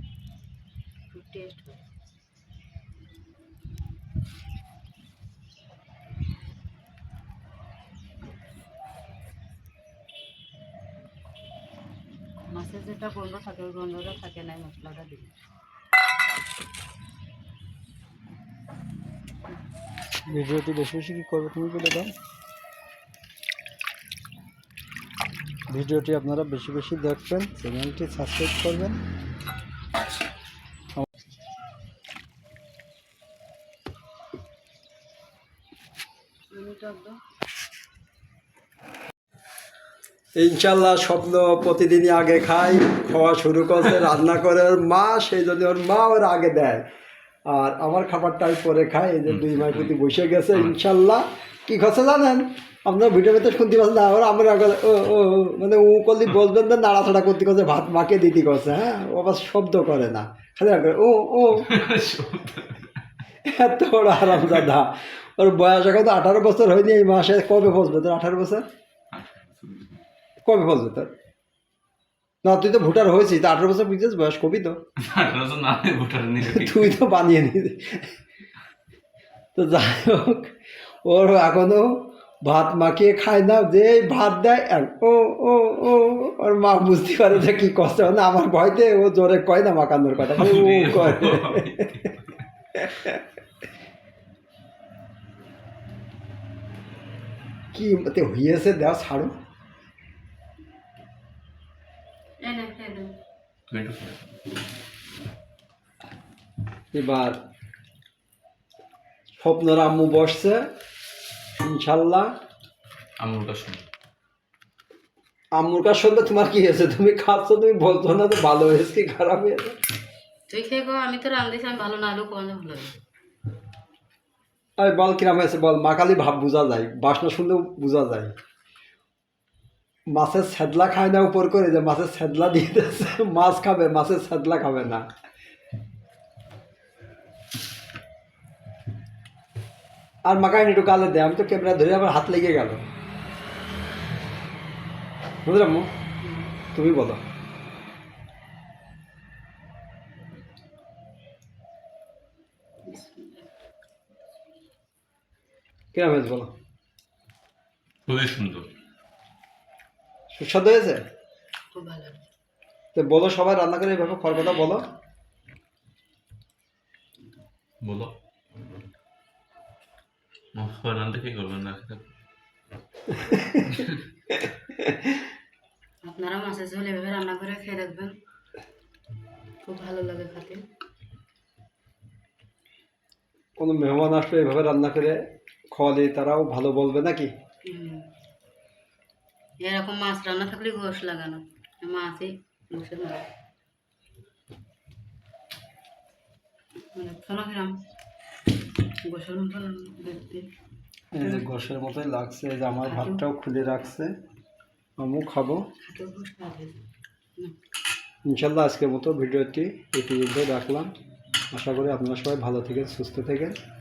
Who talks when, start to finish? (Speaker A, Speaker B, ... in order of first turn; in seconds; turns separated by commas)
Speaker A: 1.1-1.8, Speaker A: 12.5-15.3, Speaker B: 20.3-22.1, Speaker B: 25.7-29.0, Speaker A: 36.5-37.2, Speaker B: 40.4-46.9, Speaker B: 47.5-61.7, Speaker C: 49.3-50.0, Speaker C: 61.5-63.0, Speaker B: 63.4-68.7, Speaker C: 69.1-70.0, Speaker B: 70.4-71.1, Speaker B: 72.4-74.8, Speaker C: 75.0-77.0, Speaker B: 76.4-78.1, Speaker B: 79.5-92.1, Speaker C: 90.2-92.3, Speaker B: 92.7-93.2, Speaker B: 97.7-99.3, Speaker A: 102.4-103.1, Speaker C: 103.7-104.2, Speaker B: 106.9-107.4, Speaker B: 109.4-110.7, Speaker B: 111.6-112.3, Speaker C: 113.2-113.9, Speaker B: 115.5-119.8, Speaker A: 120.5-123.0, Speaker B: 124.8-128.3, Speaker B: 130.1-135.1, Speaker B: 140.2-142.8, Speaker B: 145.4-145.9, Speaker A: 146.2-146.7, Speaker B: 146.7-147.2, Speaker A: 152.8-153.5, Speaker B: 155.9-156.5, Speaker C: 158.1-158.7, Speaker B: 160.3-161.0, Speaker A: 161.7-162.2, Speaker B: 162.9-164.9, Speaker C: 167.8-168.1, Speaker C: 170.5-172.1, Speaker B: 173.3-173.7, Speaker C: 173.7-174.0, Speaker A: 176.0-178.1, Speaker A: 179.6-180.6, Speaker B: 183.6-185.2, Speaker B: 185.7-187.3, Speaker A: 187.7-188.1, Speaker A: 189.6-193.3, Speaker A: 196.9-197.7, Speaker A: 199.0-200.5, Speaker B: 201.1-204.1, Speaker A: 202.8-203.2, Speaker B: 205.0-205.6, Speaker A: 205.8-206.8, Speaker B: 208.3-210.9, Speaker B: 211.5-213.6